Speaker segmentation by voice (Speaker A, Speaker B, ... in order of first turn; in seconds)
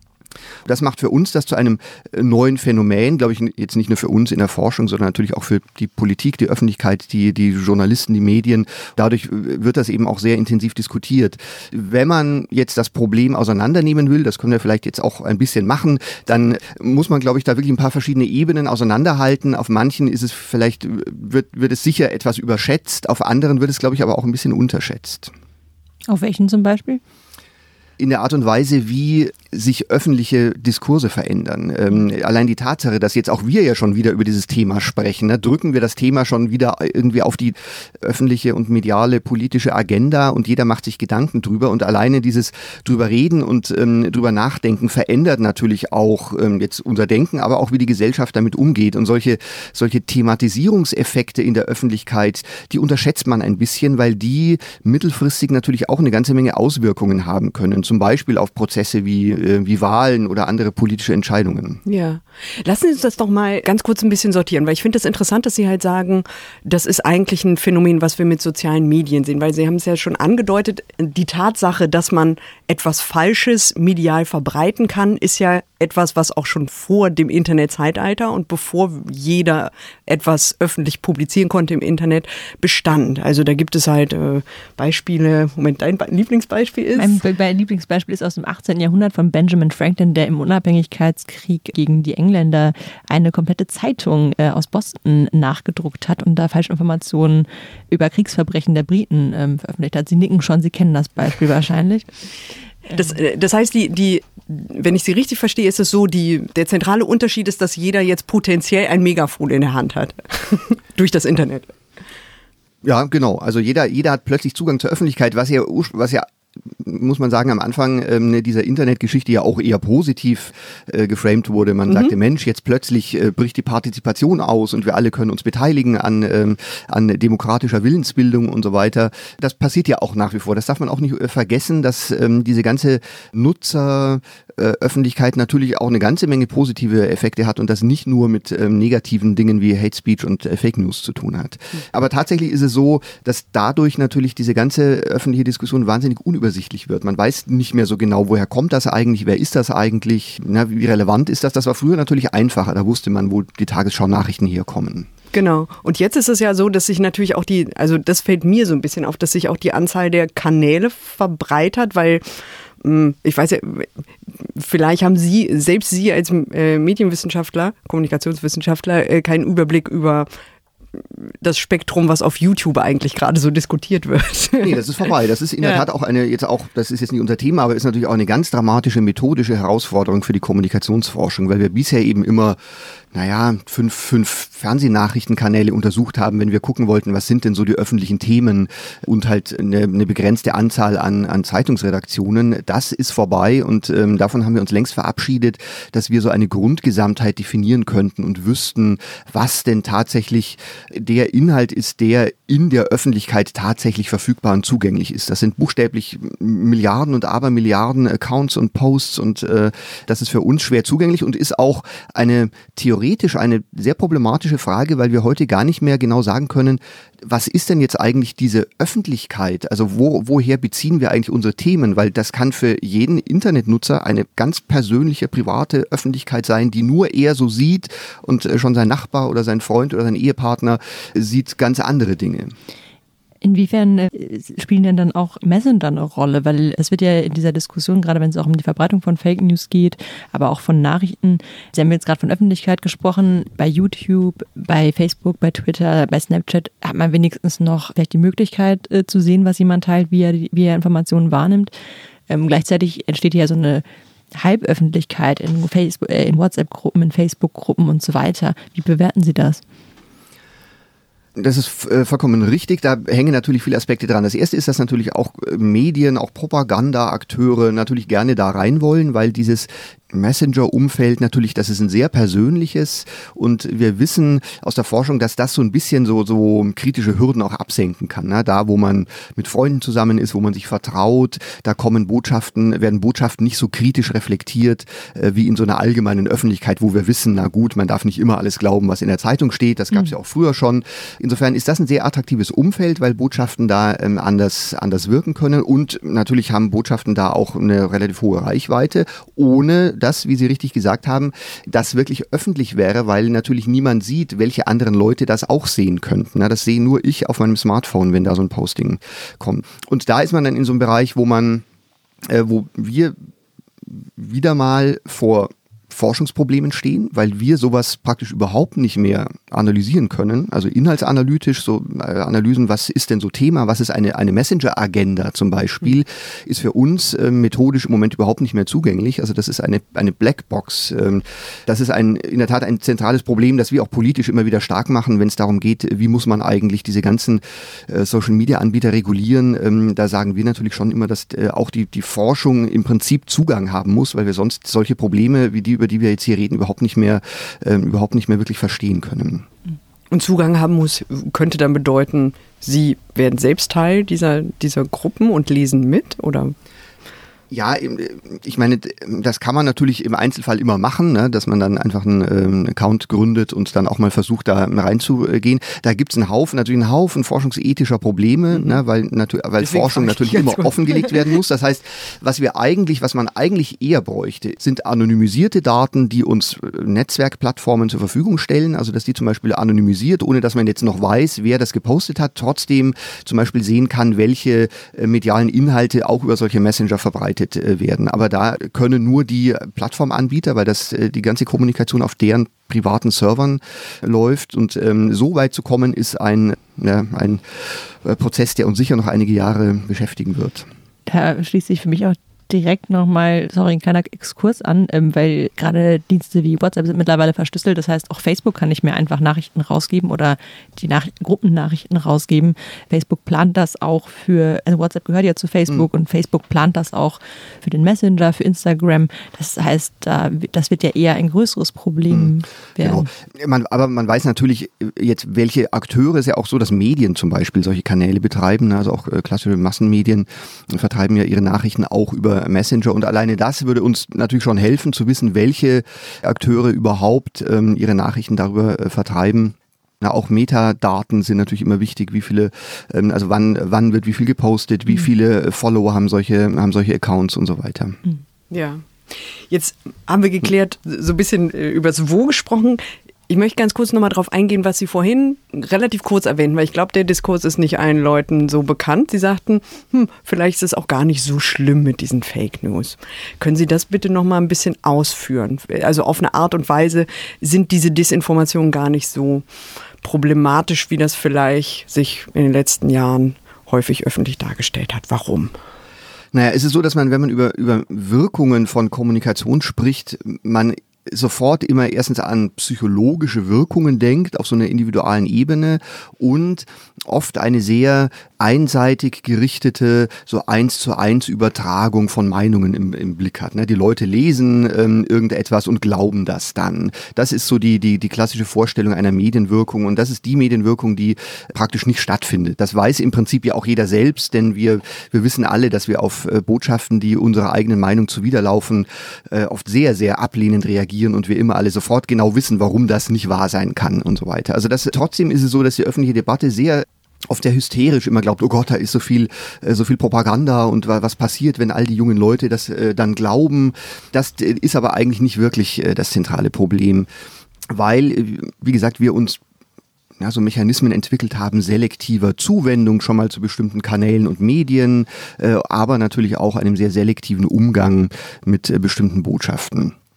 Speaker A: 0.6-25.3, 28.0-61.8, 112.8-155.1, 174.6-182.6, 183.1-232.5, 261.4-311.6, 312.2-313.1, 313.8-349.4, 357.5-400.7, 422.1-448.0, 476.3-527.1, 527.7-529.4, 530.2-539.9
Speaker B: 26.1-27.0, 87.0-102.1, 102.9-103.2, 233.4-251.7, 252.3-259.6, 401.1-423.1
Speaker C: 61.9-87.2, 103.0-111.8, 121.9-122.1, 155.3-170.3, 170.9-175.0, 175.6-175.9, 350.1-356.5, 369.6-371.3, 448.5-469.4, 470.0-475.6